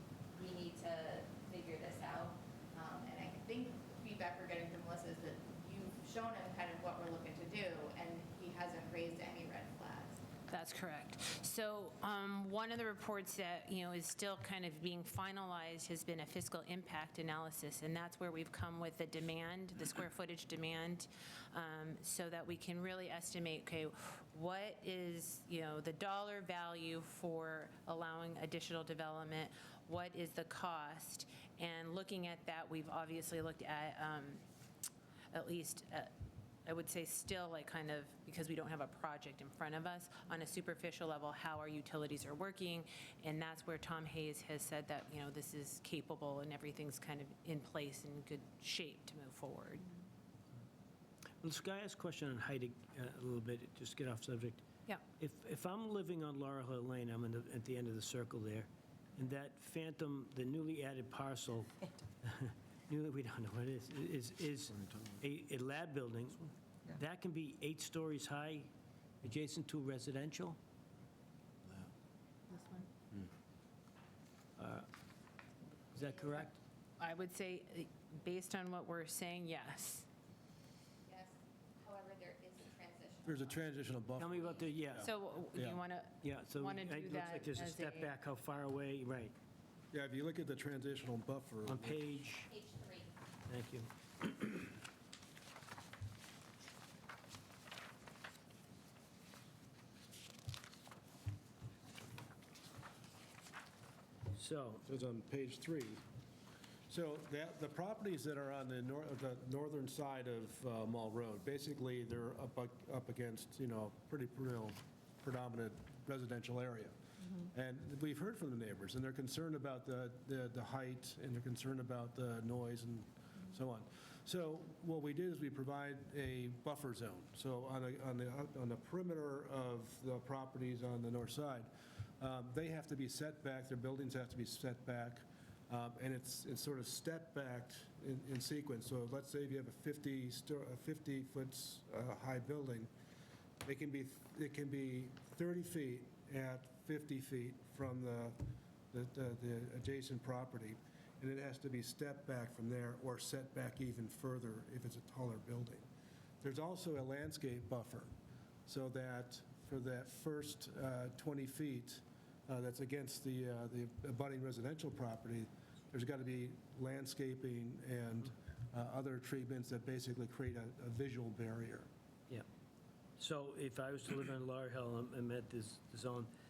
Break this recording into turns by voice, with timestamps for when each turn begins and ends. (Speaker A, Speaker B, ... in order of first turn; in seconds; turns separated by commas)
Speaker A: 0.3-10.2, Speaker B: 10.5-34.4, Speaker B: 35.3-36.1, Speaker B: 36.6-49.9, Speaker C: 51.4-54.6, Speaker C: 55.2-68.7, Speaker C: 69.2-70.6, Speaker B: 72.5-72.9, Speaker C: 74.6-74.9, Speaker C: 75.9-76.6, Speaker B: 77.0-80.1, Speaker A: 81.1-84.7, Speaker D: 83.2-85.8, Speaker C: 84.2-85.1, Speaker B: 85.0-88.1, Speaker C: 86.2-89.3, Speaker D: 89.9-92.1, Speaker C: 91.7-92.5, Speaker A: 92.4-93.1, Speaker C: 93.5-94.7, Speaker C: 104.3-104.8, Speaker D: 104.9-106.0, Speaker D: 106.9-117.0, Speaker D: 117.5-142.9, Speaker D: 143.6-148.4, Speaker D: 148.9-155.9, Speaker D: 156.4-158.1, Speaker D: 158.7-171.9, Speaker C: 173.2-176.3